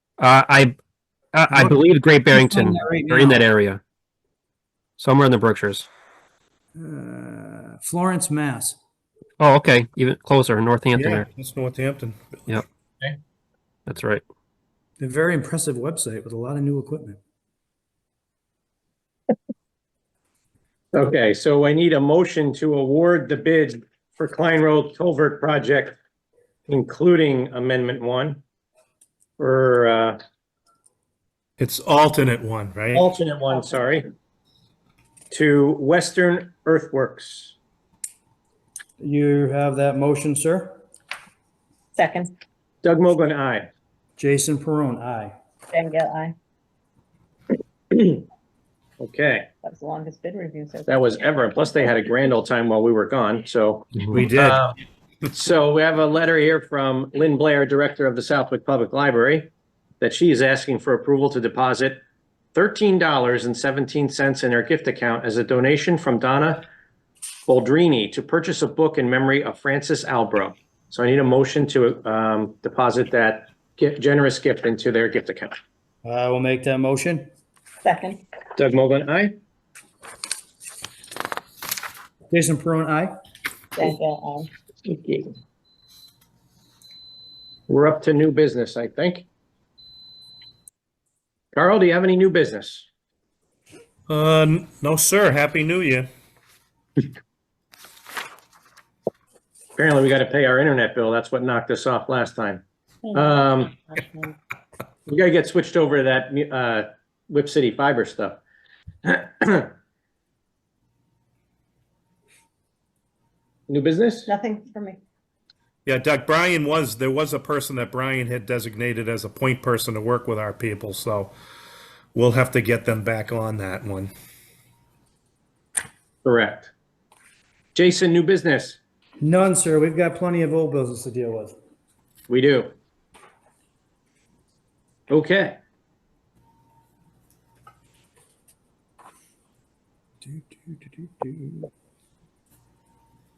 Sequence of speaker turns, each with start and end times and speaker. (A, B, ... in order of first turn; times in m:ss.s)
0:00.2-0:00.7 A
0:01.3-0:03.8 A
0:01.5-0:03.4 B
0:05.0-0:05.9 A
0:06.8-0:08.8 B
0:09.4-0:11.2 A
0:10.9-0:12.6 C
0:13.9-0:14.2 A
0:15.0-0:17.2 B
0:20.9-0:26.0 D
0:26.7-0:28.4 D
0:29.4-0:30.2 D
0:31.6-0:33.0 C
0:32.9-0:34.0 D
0:35.3-0:37.5 D
0:39.0-0:40.8 B
0:42.0-0:42.3 E
0:42.8-0:43.7 D
0:44.2-0:45.3 B
0:45.7-0:46.4 E
0:47.9-0:48.2 D
0:49.0-0:49.5 D
0:49.6-0:51.3 E
0:50.9-0:54.8 D
0:54.0-0:54.6 C
0:55.3-0:59.5 D
1:00.0-1:02.0 D
1:02.5-1:06.7 D
1:07.5-1:15.5 D
1:16.0-1:17.3 B
1:17.8-1:18.2 E
1:18.6-1:19.4 D
1:22.3-1:23.1 B
1:23.8-1:24.5 E
1:24.8-1:25.3 D
1:27.7-1:29.2 D
1:31.5-1:32.9 D
1:34.1-1:36.1 C
1:39.8-1:42.6 D
1:43.0-1:44.3 E
1:43.1-1:43.7 D
1:45.1-1:48.4 D
1:49.0-1:49.7 D
1:53.7-1:54.3 D
1:54.3-1:55.0 E
1:55.8-2:01.3 C
2:02.1-2:04.1 C
2:06.2-2:06.7 D
2:07.7-2:08.8 D
2:09.2-2:11.6 B
2:12.3-2:12.7 D
2:15.1-2:15.6 D
2:20.2-2:21.7 B